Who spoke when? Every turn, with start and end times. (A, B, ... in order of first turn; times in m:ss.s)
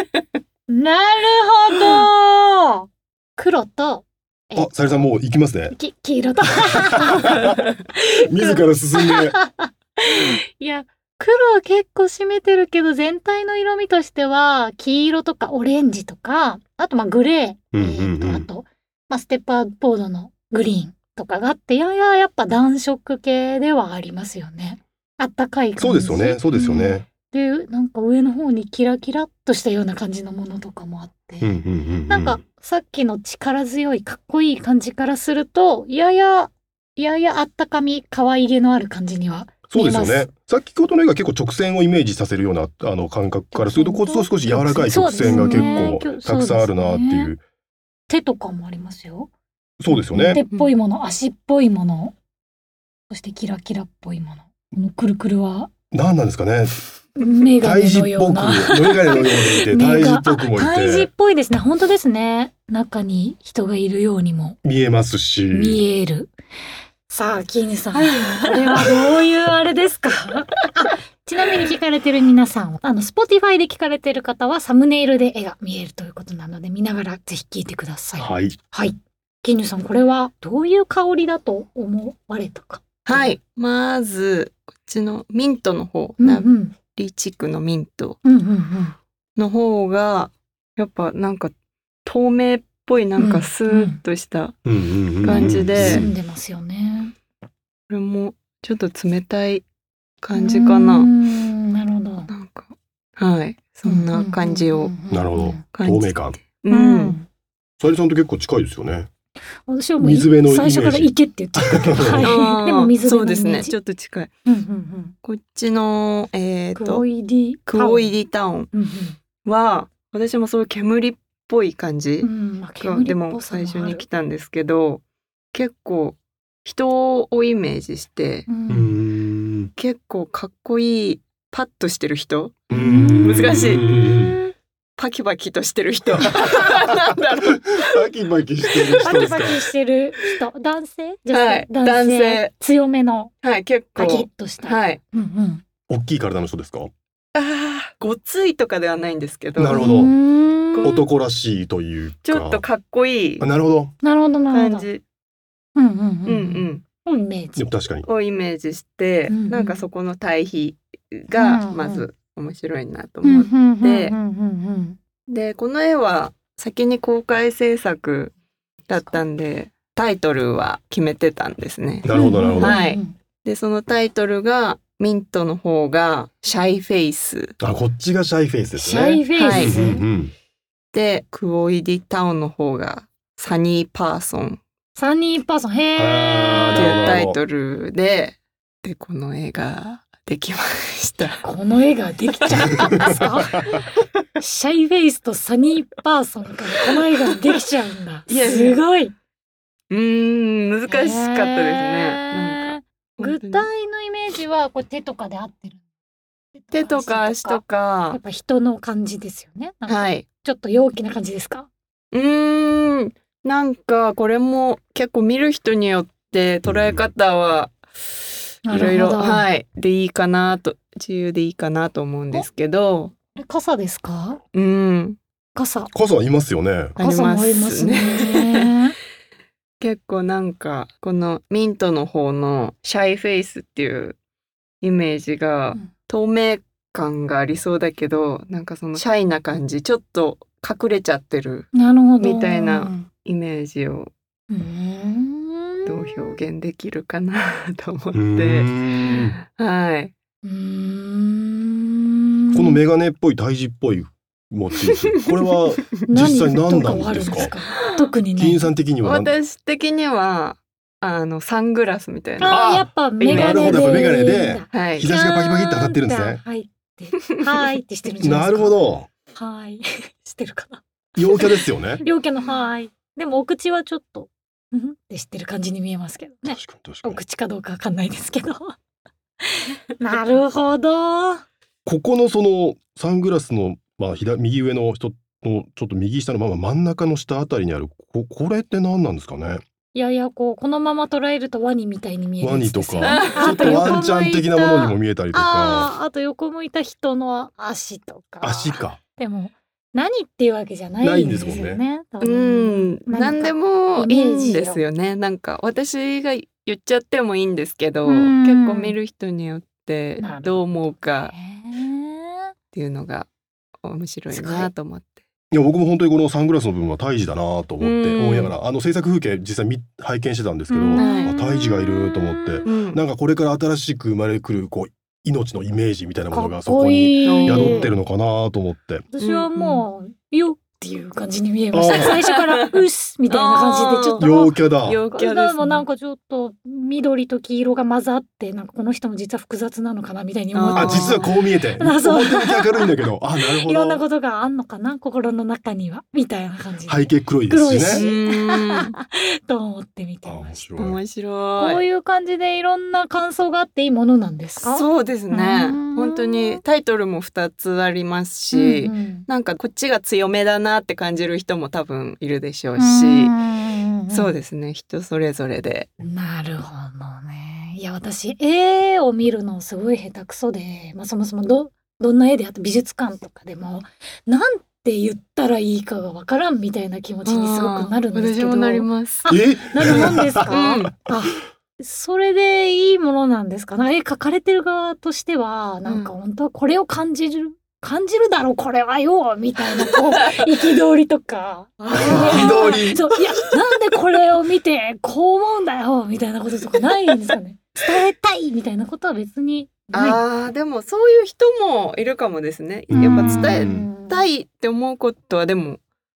0:00.7-0:05.1 A
0:04.5-0:05.7 B
0:05.7-0:40.3 A
0:07.0-0:07.4 B
0:08.2-0:09.4 B
0:17.7-0:18.5 B
0:25.8-0:27.1 B
0:31.4-0:32.4 B
0:39.7-0:47.4 B
0:43.5-0:47.3 A
0:45.2-0:45.9 C
0:48.1-0:49.3 A
0:49.8-0:50.4 B
0:49.9-0:52.1 A
0:53.1-0:55.7 A
0:55.9-0:56.8 B
0:57.2-1:04.6 A
0:57.6-1:01.1 B
1:04.6-1:05.8 B
1:05.5-1:06.3 A
1:07.1-1:23.3 A
1:07.9-1:09.0 C
1:18.2-1:18.6 B
1:23.0-1:28.2 C
1:26.2-1:26.8 A
1:28.2-1:29.0 A
1:29.4-1:31.5 C
1:32.0-1:34.6 C
1:33.2-1:34.0 A
1:34.6-1:36.1 B
1:35.2-1:36.1 C
1:35.2-1:37.1 A
1:37.9-1:39.6 C
1:40.2-1:41.1 C
1:40.3-1:42.3 A
1:42.3-1:44.9 C
1:43.8-1:45.6 A
1:45.1-1:46.4 B
1:45.7-1:47.2 C
1:46.7-1:47.3 A
1:47.8-1:49.1 B
1:49.7-1:53.7 A
1:50.0-1:52.3 B
1:52.2-1:54.3 C
1:54.4-1:55.1 A
1:55.2-1:57.0 C
1:56.7-1:58.1 A
1:57.6-1:58.7 C
1:58.7-1:59.2 A
1:59.4-2:08.5 C
2:02.2-2:04.0 A
2:08.5-2:09.0 A
2:08.7-2:09.7 B
2:09.8-2:14.2 C
2:12.7-2:13.6 A
2:12.7-2:14.4 B
2:15.0-2:18.0 C
2:17.7-2:19.6 B
2:18.7-2:19.0 C
2:19.0-2:23.3 A
2:21.3-2:22.5 C
2:23.4-2:25.0 C
2:24.0-2:25.6 A
2:25.9-2:26.9 B
2:27.3-2:30.0 C
2:29.5-2:30.1 B
2:29.7-2:30.9 A
2:30.7-2:31.1 C
2:30.8-2:32.6 B
2:32.2-2:33.4 C
2:33.4-2:33.9 B
2:34.0-2:34.8 A
2:34.5-2:35.0 C
2:35.8-2:37.6 A
2:36.2-2:36.8 C
2:37.6-2:38.1 B
2:38.0-2:44.1 C
2:39.3-2:39.8 A
2:41.3-2:42.0 A
2:43.2-2:45.0 A
2:45.3-2:48.3 C
2:48.9-2:57.5 C
2:48.9-2:49.2 A
2:52.0-2:52.8 B
2:52.1-2:53.2 A
2:57.6-3:00.3 B
2:58.8-3:00.0 A
2:59.3-2:59.8 C
3:00.9-3:04.6 C
3:05.0-3:07.0 A
3:06.0-3:07.4 B
3:06.7-3:11.4 C
3:11.4-3:13.7 A
3:12.5-3:12.9 C
3:14.4-3:19.1 A
3:16.8-3:17.4 C
3:18.3-3:18.8 C
3:19.9-3:23.7 C
3:20.9-3:25.8 A
3:26.5-3:31.7 A
3:26.7-3:28.2 C
3:29.9-3:30.2 C
3:32.1-3:37.8 C
3:38.6-3:39.5 A
3:38.6-3:43.1 C
3:43.3-3:44.4 A
3:44.5-3:45.2 C
3:45.5-3:45.9 A
3:45.9-3:47.0 B
3:47.0-3:48.7 C
3:47.0-3:48.9 A
3:49.8-3:54.2 C
3:54.8-4:04.1 C
4:01.7-4:03.1 A
4:04.5-4:06.3 A
4:05.8-4:10.1 C
4:08.1-4:09.4 B
4:10.4-4:12.8 A
4:12.5-4:17.5 B
4:16.1-4:18.7 A
4:18.4-4:19.3 B
4:19.0-4:22.5 C
4:22.4-4:28.8 A
4:22.4-4:26.4 B
4:23.2-4:23.9 C
4:24.7-4:25.1 C
4:28.2-4:29.1 B
4:29.3-4:38.7 A
4:31.2-4:32.0 B
4:36.4-4:37.2 B
4:39.5-4:41.4 A
4:41.8-4:49.6 B
4:49.9-4:54.2 A
4:52.4-4:55.9 B
4:53.0-4:55.0 C
4:55.3-5:04.8 A
4:58.4-4:59.0 B
5:01.0-5:01.8 B
5:02.2-5:11.3 C
5:08.0-5:09.0 A
5:10.2-5:10.7 A
5:11.2-5:12.5 A
5:12.7-5:13.3 C
5:13.8-5:15.2 C
5:14.3-5:14.7 A
5:15.5-5:29.1 B
5:17.8-5:18.5 C
5:20.7-5:22.7 A
5:20.9-5:21.4 C
5:22.6-5:23.0 C
5:26.3-5:27.9 A
5:27.2-5:27.9 C
5:29.1-5:34.6 A
5:29.2-5:29.8 C
5:31.7-5:32.1 B
5:31.9-5:34.3 C
5:34.2-5:35.0 B
5:34.8-5:35.8 C
5:35.1-5:50.6 A
5:40.5-5:41.4 C
5:40.7-5:44.0 B
5:46.9-5:48.1 B
5:47.9-5:48.9 C
5:50.2-5:51.0 B
5:50.8-5:51.8 C
5:51.6-5:56.6 A
5:54.6-6:03.4 C
5:58.5-5:59.3 A
6:02.8-6:04.3 A
6:04.1-6:05.9 C
6:06.0-6:40.2 A
6:17.2-6:19.3 C
6:19.3-6:20.6 B
6:19.8-6:20.9 C
6:25.8-6:26.1 C
6:29.6-6:30.7 C
6:31.8-6:32.8 C
6:31.9-6:33.0 B
6:39.9-6:45.8 C
6:42.9-6:43.9 B
6:42.9-6:44.3 A